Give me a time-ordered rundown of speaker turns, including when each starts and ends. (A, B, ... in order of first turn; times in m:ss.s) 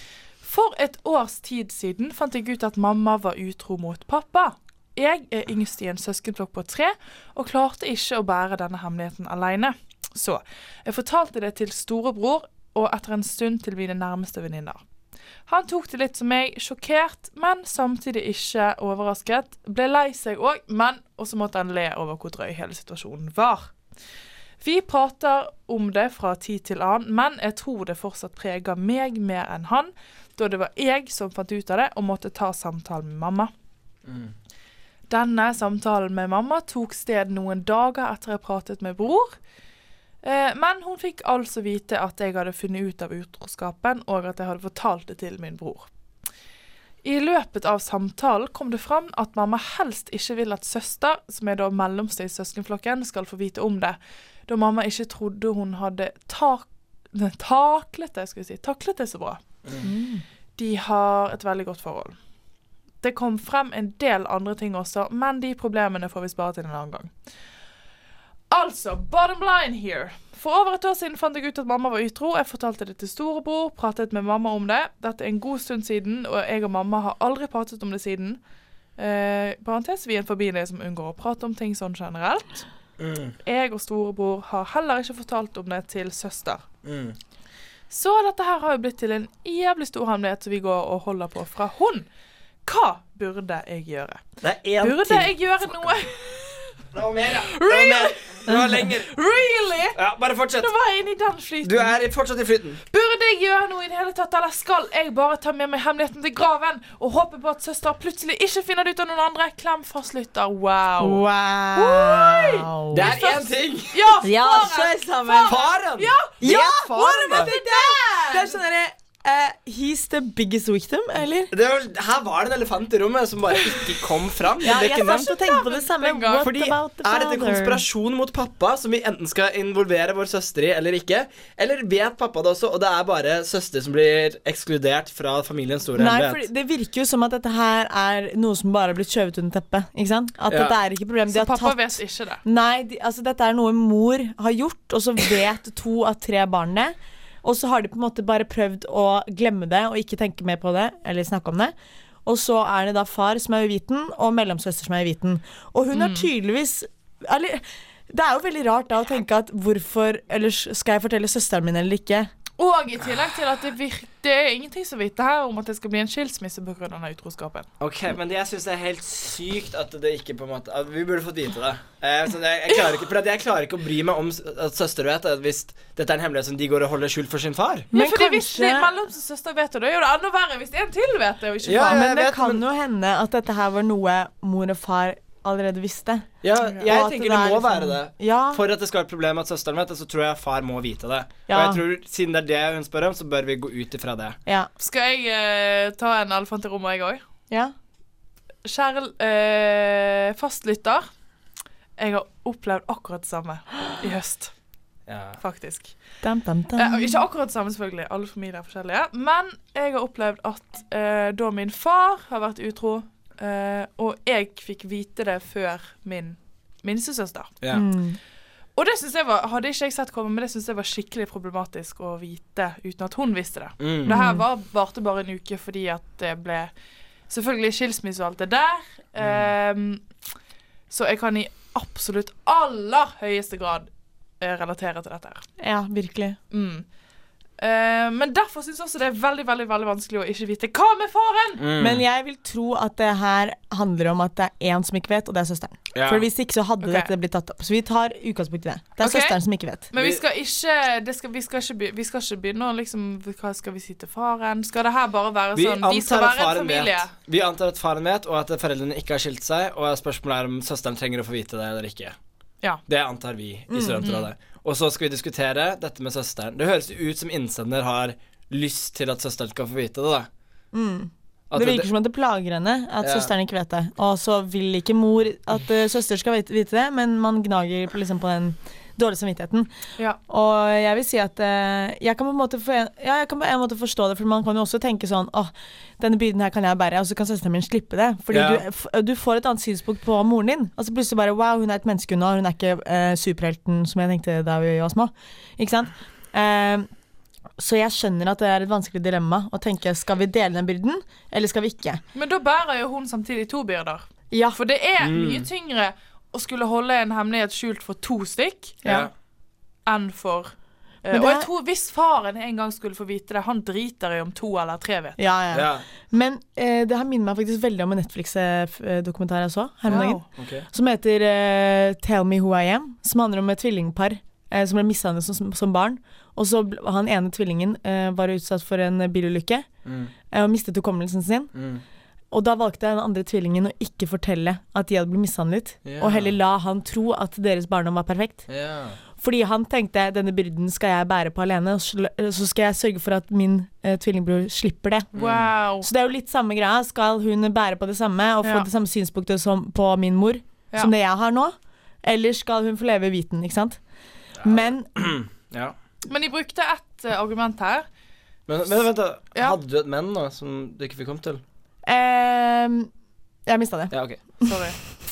0:00.4-0:14.8 A
0:15.5-0:23.7 A
0:24.6-0:33.5 A
0:34.1-0:34.3 B
0:35.1-0:39.4 A
0:40.2-0:45.9 A
0:47.0-0:59.4 A
0:59.8-1:00.2 C
1:00.6-1:02.2 A
1:03.0-1:07.1 A
1:08.5-1:18.4 A
1:19.0-1:22.7 A
1:23.0-1:23.4 B
1:23.4-1:26.6 A
1:26.8-1:27.2 B
1:27.9-1:32.1 A
1:32.6-1:34.2 A
1:34.4-1:35.9 B
1:34.8-1:36.7 A
1:36.9-1:39.1 B
1:37.4-1:40.0 A
1:40.0-1:40.7 B
1:40.6-1:42.0 A
1:41.6-1:42.8 B
1:42.9-1:51.2 A
1:51.0-1:53.1 C
1:51.8-1:58.6 A
1:52.9-1:54.2 B
1:54.2-1:55.6 C
1:55.5-1:57.5 B
1:56.4-2:01.5 C
2:01.5-2:05.3 B
2:04.6-2:07.8 C
2:04.7-2:06.5 A
2:06.4-2:16.4 B
2:15.9-2:31.7 C
2:20.5-2:20.8 B
2:21.3-2:22.4 A
2:32.2-2:42.3 C
2:35.9-2:36.3 A
2:42.6-2:47.7 A
2:47.8-2:57.9 B
2:57.9-2:58.9 C
2:57.9-3:02.1 A
3:01.6-3:02.6 B
3:01.8-3:06.3 C
3:06.4-3:14.4 B
3:06.8-3:08.6 C
3:11.5-3:11.8 C
3:14.8-3:17.2 A
3:18.6-3:21.1 A
3:22.0-3:24.5 A
3:25.1-3:25.4 B
3:25.4-3:25.9 A
3:26.2-3:27.2 C
3:26.8-3:37.6 A
3:37.7-3:38.2 C
3:38.8-3:46.7 A
3:43.8-3:44.2 B
3:44.1-3:44.4 C
3:47.3-3:50.0 A
3:49.2-3:49.5 B
3:50.9-3:53.9 A
3:54.4-3:55.4 A
3:55.6-3:56.4 C
3:56.5-3:56.9 A
3:57.6-4:01.6 A
4:01.6-4:02.0 B
4:01.8-4:09.9 C
4:05.9-4:06.3 B
4:06.8-4:07.1 A
4:09.0-4:09.4 A
4:09.9-4:17.1 A
4:10.0-4:10.2 B
4:15.6-4:22.2 B
4:22.9-4:30.3 B
4:23.7-4:24.1 C
4:30.7-4:39.7 C
4:31.5-4:31.9 B
4:33.0-4:33.3 B
4:40.3-4:56.9 C
4:48.3-4:48.6 B
4:57.6-5:02.0 C
5:02.1-5:08.8 A
5:04.3-5:04.6 C
5:05.0-5:05.5 B
5:08.8-5:09.1 C
5:08.8-5:09.1 B
5:09.9-5:15.2 A
5:11.1-5:11.5 C
5:15.2-5:29.7 C
5:15.5-5:15.8 B
5:19.9-5:20.2 A
5:19.9-5:20.7 B
5:29.8-5:30.1 B
5:30.3-5:31.5 C
5:31.5-5:31.8 B
5:32.3-5:38.5 C
5:35.8-5:36.4 B
5:38.5-5:39.0 B
5:39.2-5:45.1 C
5:45.2-5:45.5 B
5:45.2-5:45.9 A
5:45.8-5:53.8 C
5:48.4-5:48.7 A
5:54.4-5:55.8 B
5:54.4-5:54.9 C
5:56.1-5:57.9 A
5:58.5-6:01.4 B
6:01.9-6:02.9 C
6:03.5-6:03.9 C
6:03.9-6:04.2 B
6:04.4-6:04.8 A